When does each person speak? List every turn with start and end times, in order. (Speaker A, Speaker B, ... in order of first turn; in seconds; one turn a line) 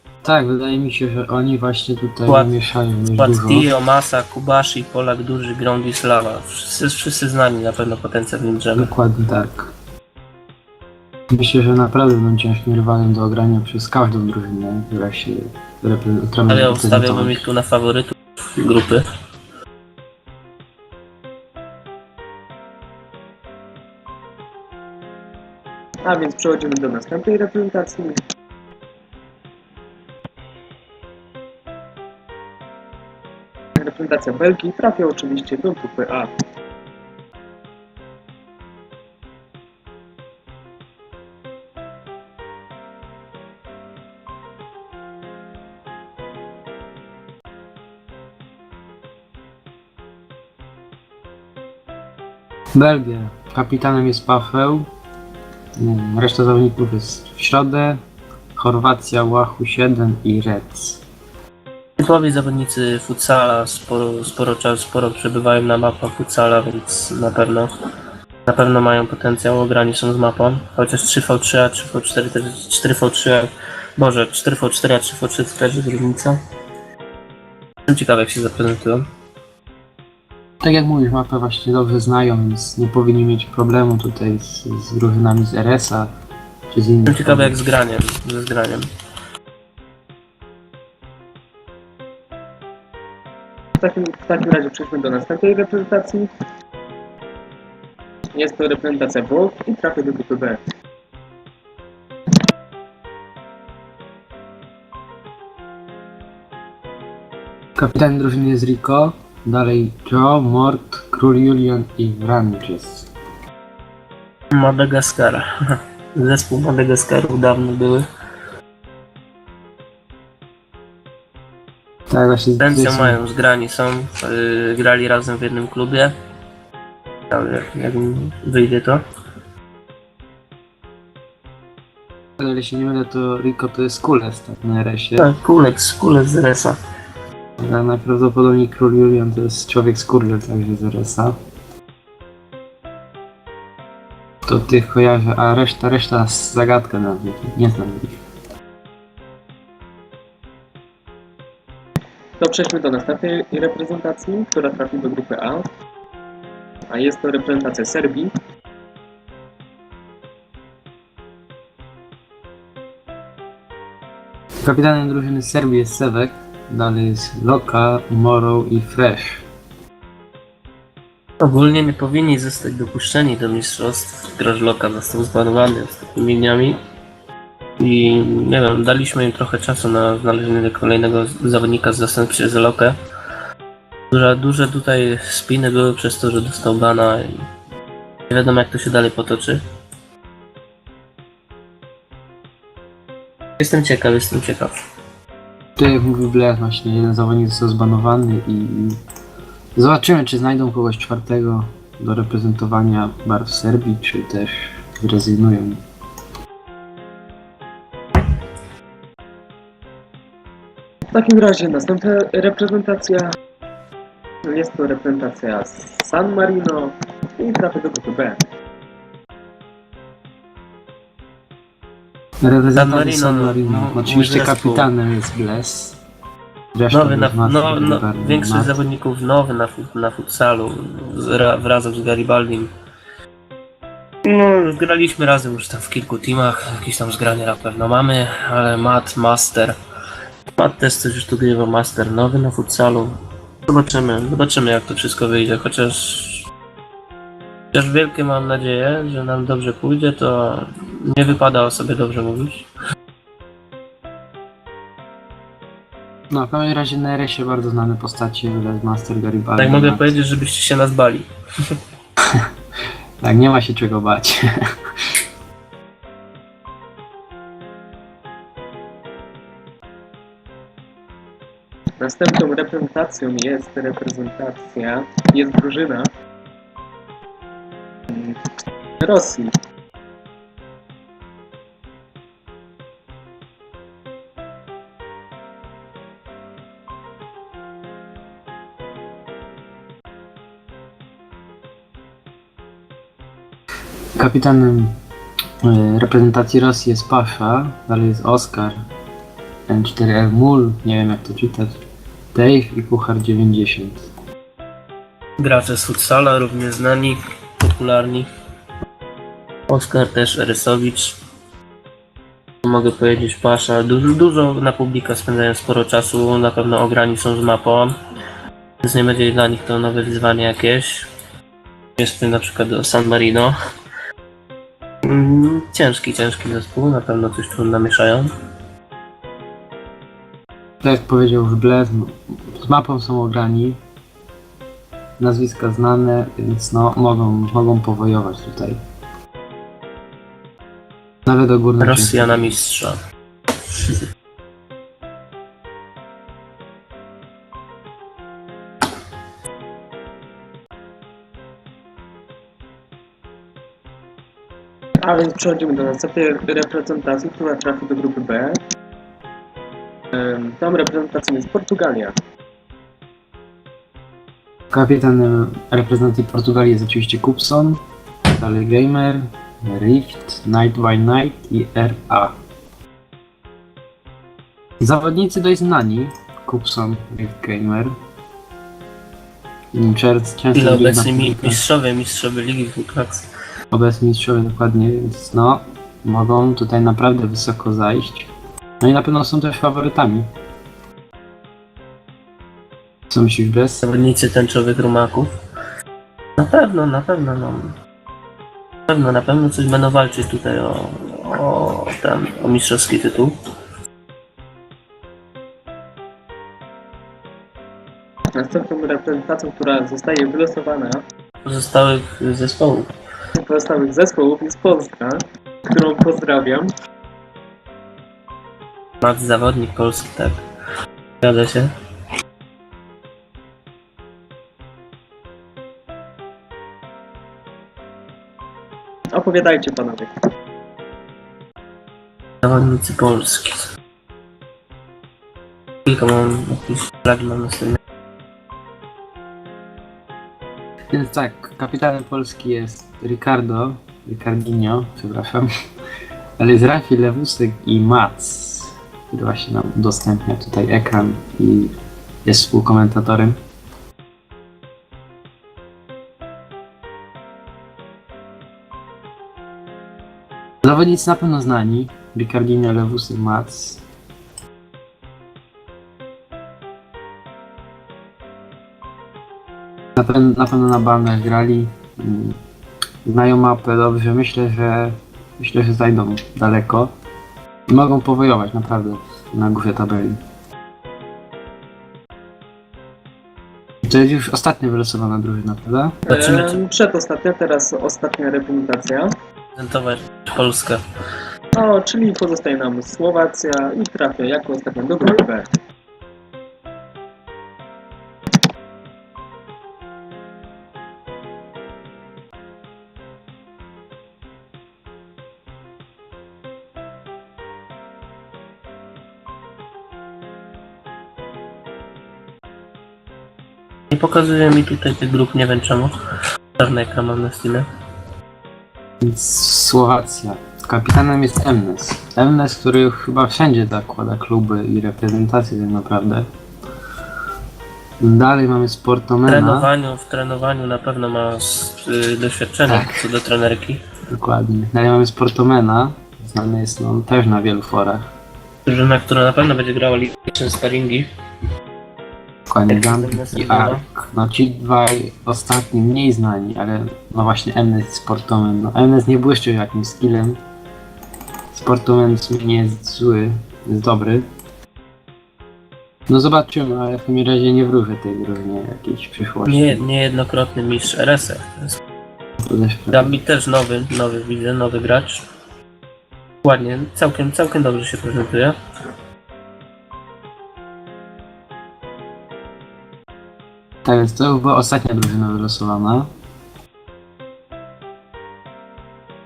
Speaker A: 0.2-3.7
Speaker B: 2.3-2.5
Speaker B: 3.1-8.9
Speaker A: 8.7-9.7
Speaker A: 11.3-17.4
Speaker B: 16.5-19.0
Speaker C: 26.0-28.2
Speaker C: 33.8-36.3
Speaker A: 52.7-54.9
Speaker A: 55.8-58.0
Speaker A: 58.5-61.0
Speaker B: 62.0-67.7
Speaker B: 68.5-76.4
Speaker B: 77.9-79.0
Speaker A: 80.6-86.1
Speaker A: 86.7-87.6
Speaker B: 87.1-88.9
Speaker C: 93.8-96.3
Speaker C: 98.3-100.6
Speaker A: 107.8-113.1
Speaker B: 114.5-115.5
Speaker B: 116.1-118.0
Speaker A: 122.1-123.2
Speaker B: 122.6-126.1
Speaker B: 127.3-129.0
Speaker A: 132.4-135.3
Speaker B: 135.2-136.8
Speaker A: 137.6-141.3
Speaker A: 144.4-148.2
Speaker C: 152.4-155.6
Speaker C: 156.9-158.3
Speaker A: 164.6-169.4
Speaker B: 171.4-176.8
Speaker B: 177.8-182.9
Speaker B: 184.1-187.3
Speaker B: 188.3-189.6
Speaker B: 193.6-194.8
Speaker A: 195.8-199.0
Speaker A: 199.8-205.8
Speaker C: 211.1-213.3
Speaker C: 214.5-218.4
Speaker A: 222.4-226.0
Speaker B: 222.8-224.9
Speaker A: 226.7-228.8
Speaker B: 226.9-232.7
Speaker B: 234.2-239.8
Speaker B: 240.6-243.2
Speaker B: 243.7-246.4
Speaker B: 247.7-252.7
Speaker A: 256.3-260.1
Speaker B: 259.6-261.8
Speaker A: 263.2-264.4
Speaker C: 272.0-276.1
Speaker C: 279.0-279.5
Speaker A: 294.1-294.9
Speaker A: 295.6-298.8
Speaker A: 299.7-301.8
Speaker A: 302.3-304.0
Speaker B: 305.4-308.3
Speaker B: 309.7-311.2
Speaker B: 312.6-317.9
Speaker B: 318.8-321.1
Speaker B: 322.0-323.5
Speaker B: 325.0-328.3
Speaker A: 330.8-333.8
Speaker A: 335.2-338.8
Speaker A: 341.2-342.5
Speaker B: 341.8-343.0
Speaker B: 343.7-344.0
Speaker C: 355.0-358.6
Speaker C: 360.1-362.1
Speaker A: 364.7-372.3
Speaker A: 374.8-377.9
Speaker A: 379.7-381.6
Speaker B: 380.5-383.2
Speaker A: 383.7-388.3
Speaker A: 388.8-390.3
Speaker A: 393.1-393.8
Speaker B: 393.8-395.3
Speaker B: 396.4-397.7
Speaker B: 398.9-403.3
Speaker C: 408.3-411.0
Speaker B: 411.4-412.9
Speaker C: 413.4-416.7
Speaker B: 419.0-420.4
Speaker B: 421.2-421.7
Speaker C: 429.1-430.1
Speaker B: 432.4-433.7
Speaker B: 435.9-437.8
Speaker A: 440.9-445.5
Speaker A: 446.4-451.7
Speaker A: 452.2-453.4
Speaker A: 460.6-463.8
Speaker A: 469.9-472.4
Speaker A: 473.1-476.9
Speaker A: 477.7-480.2
Speaker A: 483.8-486.1
Speaker C: 486.1-489.1
Speaker B: 486.1-486.6
Speaker B: 489.6-490.8
Speaker C: 491.6-495.4
Speaker B: 513.9-515.9
Speaker B: 516.6-517.7
Speaker A: 519.0-526.2
Speaker A: 528.0-529.7
Speaker B: 529.3-533.8
Speaker A: 532.7-533.0
Speaker A: 534.1-538.1
Speaker B: 538.6-541.1
Speaker A: 542.5-550.4
Speaker B: 542.7-543.8
Speaker A: 551.5-554.2
Speaker A: 556.1-559.8
Speaker B: 559.5-561.8
Speaker A: 562.4-563.2
Speaker B: 562.9-565.2
Speaker B: 566.4-568.5
Speaker A: 573.8-576.1